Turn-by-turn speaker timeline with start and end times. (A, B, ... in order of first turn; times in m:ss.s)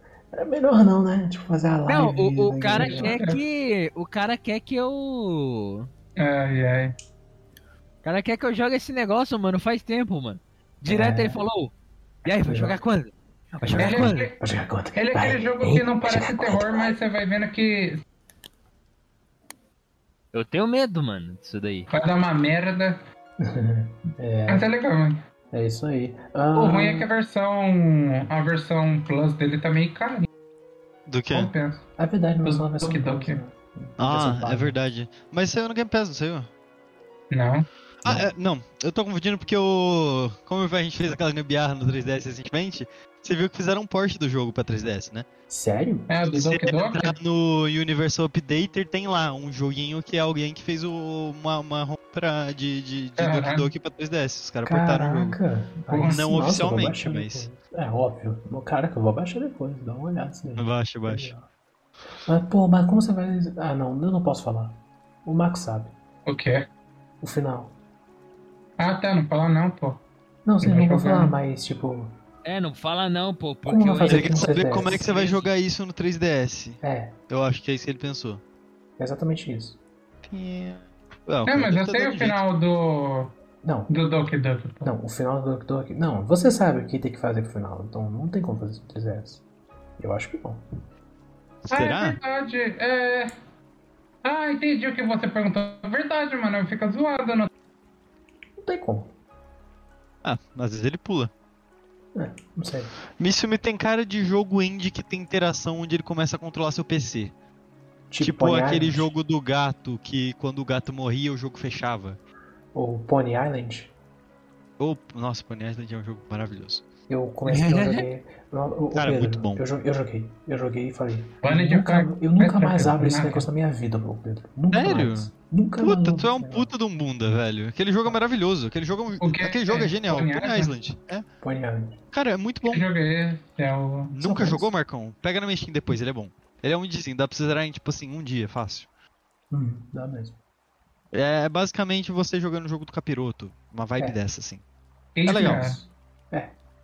0:00.3-0:03.2 A
0:01.9-0:05.9 B
0:02.8-0:03.4 C
0:06.2-0:07.0 C
0:08.0-0:11.7 B
0:10.9-0:11.4 A
0:12.2-0:14.3 B
0:12.4-0:12.8 A
0:13.6-0:17.0 A
0:13.8-0:14.4 C
0:15.0-0:18.0 C
0:20.3-0:21.9 B
0:21.9-0:23.0 C
0:23.4-0:24.7 A
0:24.5-0:25.2 C
0:25.5-0:27.1 A
0:26.6-0:30.3 C
0:31.1-0:31.5 D
0:31.3-0:31.8 C
0:32.0-0:34.8 A
0:32.4-0:33.4 C
0:34.0-0:36.5 D
0:37.3-0:37.7 C
0:38.0-0:45.3 D
0:45.5-0:46.1 A
0:46.1-0:47.2 C
0:46.3-0:55.4 D
0:53.2-0:53.7 C
0:54.6-1:01.5 A
0:55.9-0:56.2 C
0:56.0-0:57.5 D
1:00.6-1:01.3 D
1:02.2-1:06.0 A
1:06.3-1:06.7 C
1:07.2-1:07.8 A
1:08.8-1:10.0 C
1:10.4-1:12.2 A
1:10.6-1:11.4 C
1:12.4-1:15.5 B
1:13.7-1:15.1 A
1:14.0-1:18.4 D
1:16.8-1:17.2 A
1:19.0-1:19.8 A
1:20.2-1:22.4 D
1:21.5-1:23.3 C
1:23.6-1:23.9 A
1:23.9-1:24.9 C
1:24.8-1:29.4 A
1:30.0-1:30.6 A
1:31.6-1:32.2 D
1:31.7-1:33.3 C
1:34.2-1:37.5 C
1:38.6-1:39.1 A
1:40.2-1:41.3 D
1:42.2-1:42.9 A
1:43.2-1:47.3 D
1:48.1-1:49.1 A
1:48.2-1:52.2 D
1:52.7-1:53.9 A
1:54.8-1:56.8 D
1:57.1-2:06.7 A
1:57.5-1:58.0 B
1:58.9-1:59.6 D
2:01.4-2:03.5 C
2:04.7-2:11.2 D
2:09.2-2:10.7 C
2:11.4-2:12.0 A
2:12.1-2:12.8 D
2:12.7-2:14.1 C
2:14.2-2:18.9 D
2:14.2-2:14.7 A
2:19.5-2:20.4 A
2:21.1-2:24.6 D
2:25.2-2:25.8 C
2:25.3-2:25.8 D
2:25.4-2:26.6 A